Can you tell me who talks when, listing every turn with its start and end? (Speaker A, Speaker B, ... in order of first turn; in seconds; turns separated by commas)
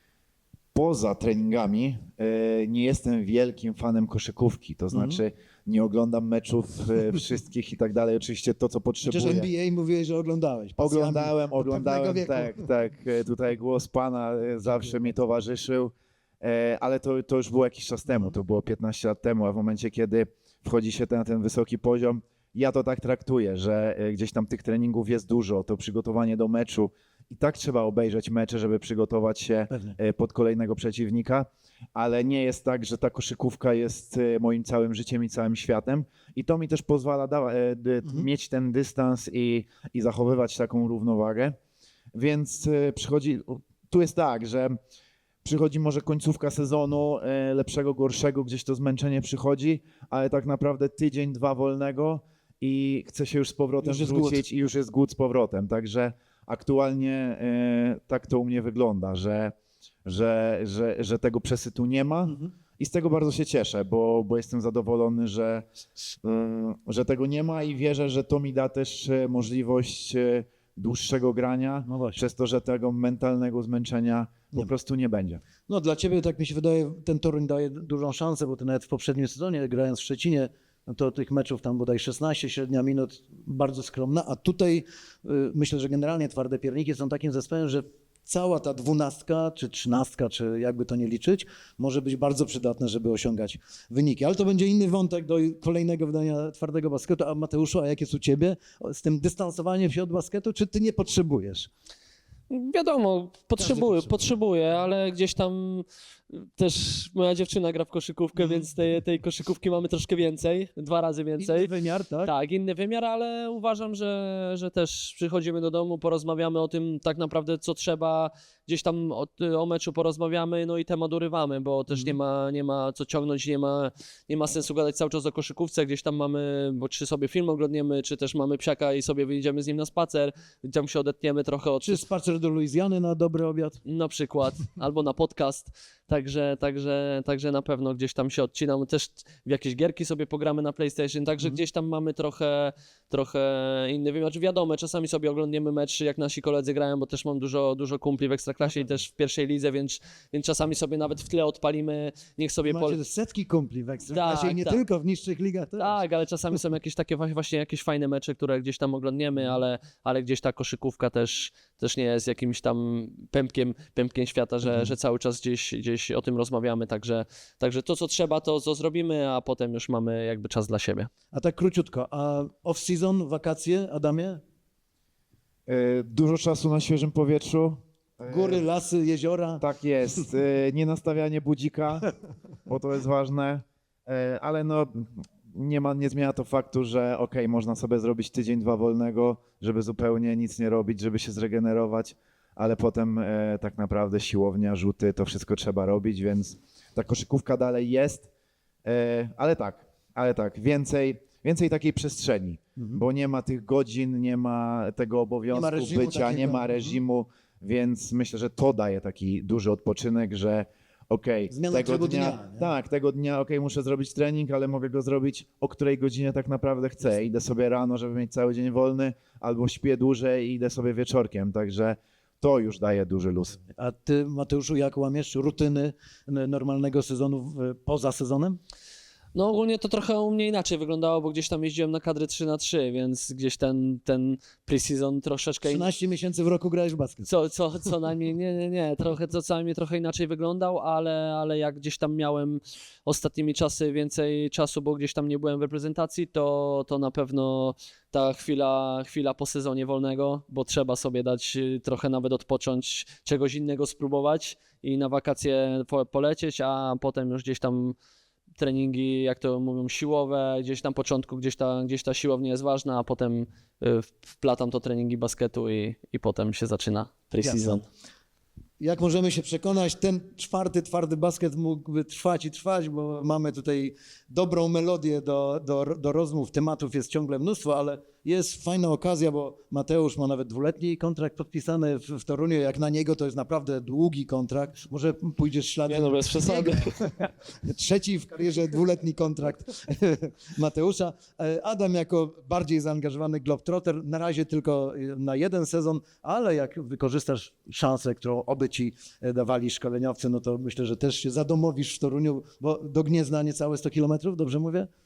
Speaker A: 0.7-9.5, Speaker B: 4.9-5.2, Speaker B: 9.0-12.6, Speaker A: 10.8-41.6, Speaker B: 14.7-15.0, Speaker B: 18.1-18.3, Speaker B: 29.7-30.0, Speaker A: 42.1-44.8, Speaker A: 45.4-59.5, Speaker B: 53.8-54.4, Speaker A: 60.1-65.7, Speaker A: 66.2-75.4, Speaker B: 71.9-72.2, Speaker B: 75.7-101.7, Speaker C: 102.5-111.7, Speaker B: 103.6-104.2, Speaker B: 111.4-112.3, Speaker C: 112.2-132.0, Speaker B: 121.9-122.2, Speaker B: 131.8-133.8, Speaker C: 133.8-153.0, Speaker B: 152.7-156.0, Speaker C: 154.1-154.8, Speaker C: 155.8-171.1, Speaker B: 164.7-164.9, Speaker B: 171.3-174.4, Speaker A: 175.7-178.6, Speaker B: 178.3-179.6, Speaker A: 179.6-182.1, Speaker A: 182.7-198.3, Speaker A: 198.8-223.6, Speaker B: 205.5-207.0, Speaker B: 211.5-212.7, Speaker B: 223.7-228.6, Speaker C: 229.3-235.9, Speaker B: 235.6-237.3, Speaker C: 237.2-258.0, Speaker C: 258.6-267.9, Speaker B: 267.4-267.8, Speaker B: 268.8-304.9, Speaker C: 285.9-287.1